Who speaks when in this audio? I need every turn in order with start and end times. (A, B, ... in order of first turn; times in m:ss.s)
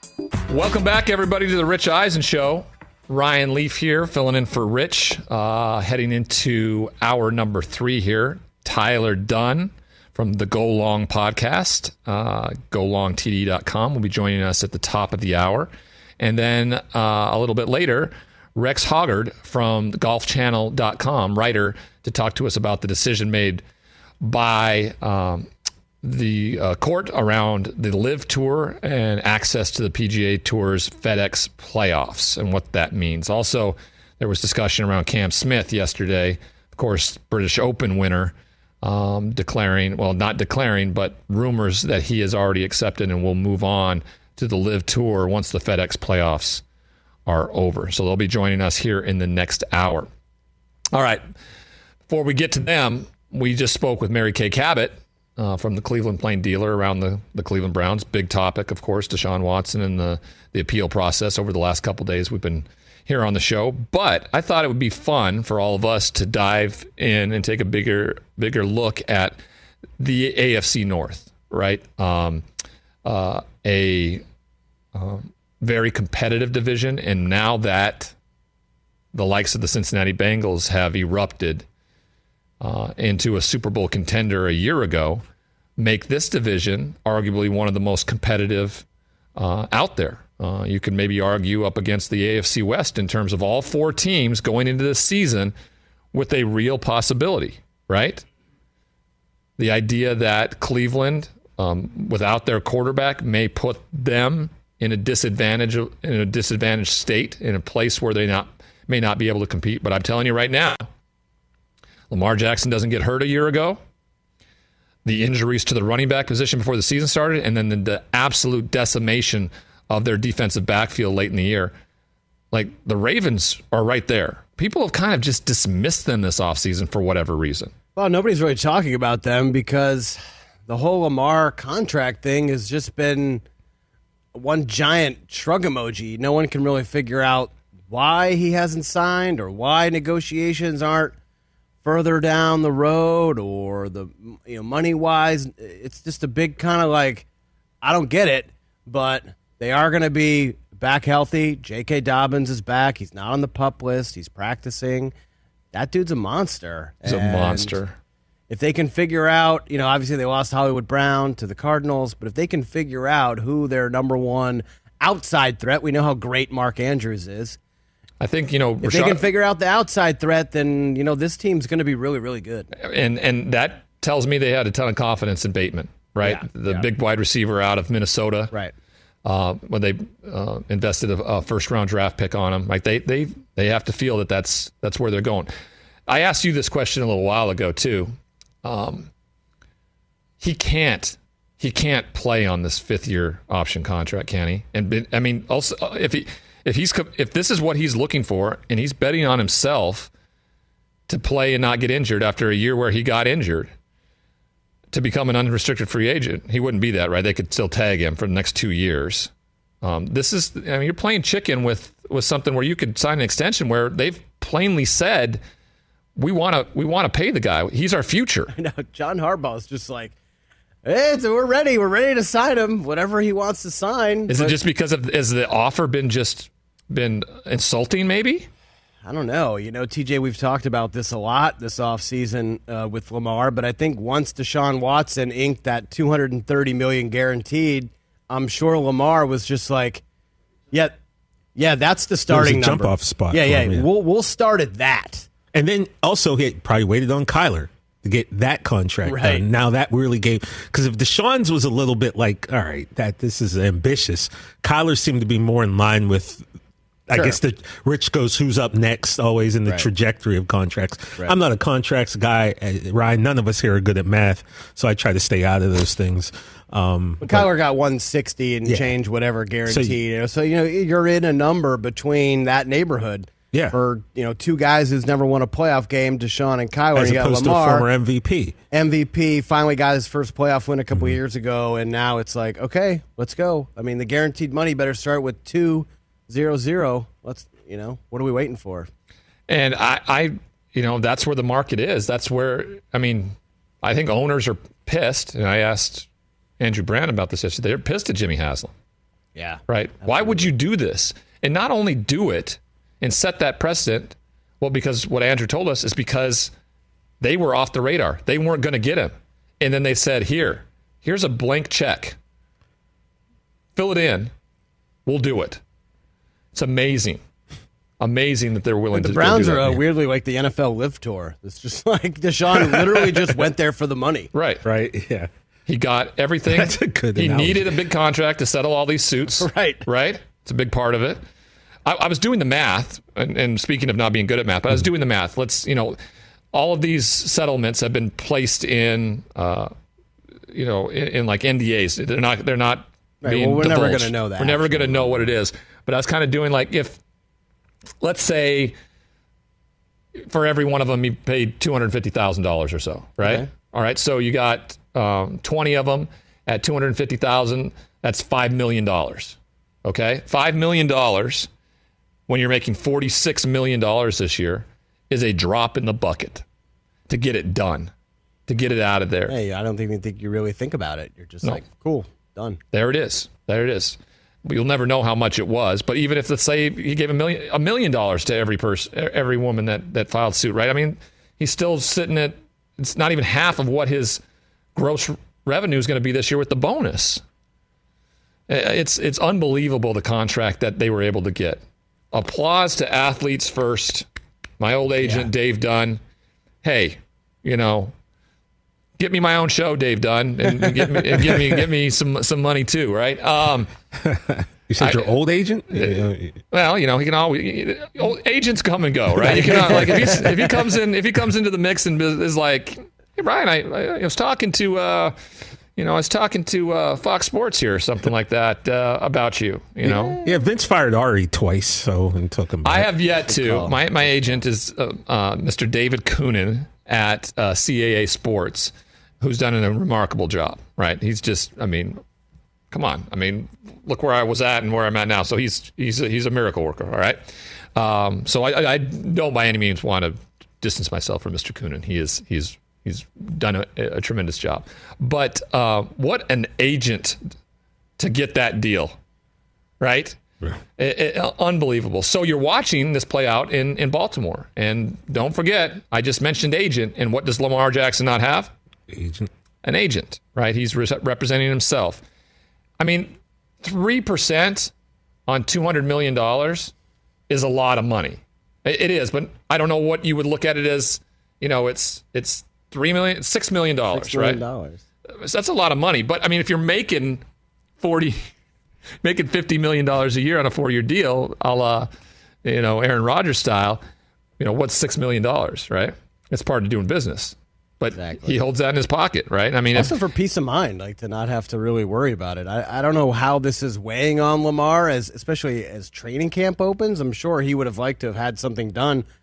0:00.5-0:23.6 A
0:24.2-0:25.5 A
0:26.0-0:46.6 A
0:47.2-0:50.1 A
0:50.9-0:51.2 A
0:52.1-1:09.4 A
1:10.0-1:12.4 A
1:13.0-1:14.2 A
1:14.9-1:18.1 A
1:19.1-1:21.6 A
1:22.6-1:25.2 A
1:25.8-1:28.8 A
1:29.4-1:35.5 A
1:36.1-1:38.2 A
1:39.6-1:50.9 A
1:52.1-1:53.8 A
1:55.0-2:01.7 A
2:02.5-2:07.7 A
2:08.0-2:13.4 B
2:14.3-2:21.1 B
2:21.8-2:27.2 B
2:27.8-2:35.1 B
2:35.7-2:37.8 B
2:37.0-2:38.0 A
2:38.5-2:47.6 B
2:48.2-2:49.2 A
2:48.8-2:52.7 B
2:52.8-2:58.5 A
2:56.2-2:56.8 B
2:59.2-3:05.5 A
3:06.1-3:09.1 A
3:10.4-3:20.1 A
3:21.1-3:23.7 A
3:24.9-3:29.3 A
3:29.8-3:35.4 A
3:36.2-3:38.5 A
3:38.5-3:40.2 B
3:40.8-3:44.6 B
3:44.3-3:48.5 A
3:49.0-4:00.0 B
4:00.7-4:01.0 B
4:01.5-4:05.3 B
4:02.3-4:03.8 C
4:05.5-4:16.4 C
4:09.0-4:09.4 B
4:17.1-4:27.5 C
4:27.2-4:37.9 B
4:29.7-4:30.0 C
4:36.9-4:38.5 C
4:38.7-4:48.9 B
4:49.5-4:56.1 A
4:56.6-4:58.7 A
4:59.3-5:00.4 B
4:59.7-5:06.5 A
5:07.2-5:12.2 A
5:13.8-5:14.3 A
5:15.0-5:15.6 A
5:16.5-5:17.2 A
5:18.0-5:19.8 A
5:18.9-5:24.3 B
5:24.3-5:24.6 A
5:24.6-5:25.3 C
5:25.7-5:31.2 A
5:26.5-5:27.7 C
5:29.4-5:29.9 B
5:31.8-5:36.0 A
5:36.5-5:39.7 A
5:40.5-5:47.0 A
5:43.2-5:45.3 B
5:48.0-5:48.7 A
5:50.2-6:01.5 A
5:53.2-5:53.5 B
6:02.3-6:06.4 A
6:07.1-6:07.9 A
6:08.5-6:09.4 A
6:09.3-6:12.6 B
6:12.7-6:24.2 A
6:24.7-6:27.2 A
6:28.5-6:34.0 A
6:34.6-6:36.0 A
6:36.6-6:37.9 A
6:39.0-6:43.7 A
6:44.0-6:46.4 C
6:44.8-6:45.2 A
6:45.7-6:55.1 A
6:49.2-6:50.5 C
6:55.8-7:00.2 A
6:59.8-7:02.9 C
7:02.6-7:12.0 A
7:03.3-7:03.8 B
7:12.7-7:27.2 A
7:28.0-7:29.0 A
7:29.8-7:30.2 A
7:30.8-7:38.5 A
7:38.9-7:39.3 C
7:39.6-7:42.0 A
7:42.8-7:44.7 A
7:45.3-7:46.7 A
7:47.3-7:54.4 A
7:53.9-7:54.8 B
7:55.2-7:57.2 A
7:57.8-7:58.3 A
7:59.0-8:01.9 A
8:02.4-8:03.8 A
8:04.4-8:10.0 A
8:07.9-8:08.4 B
8:09.7-8:19.0 B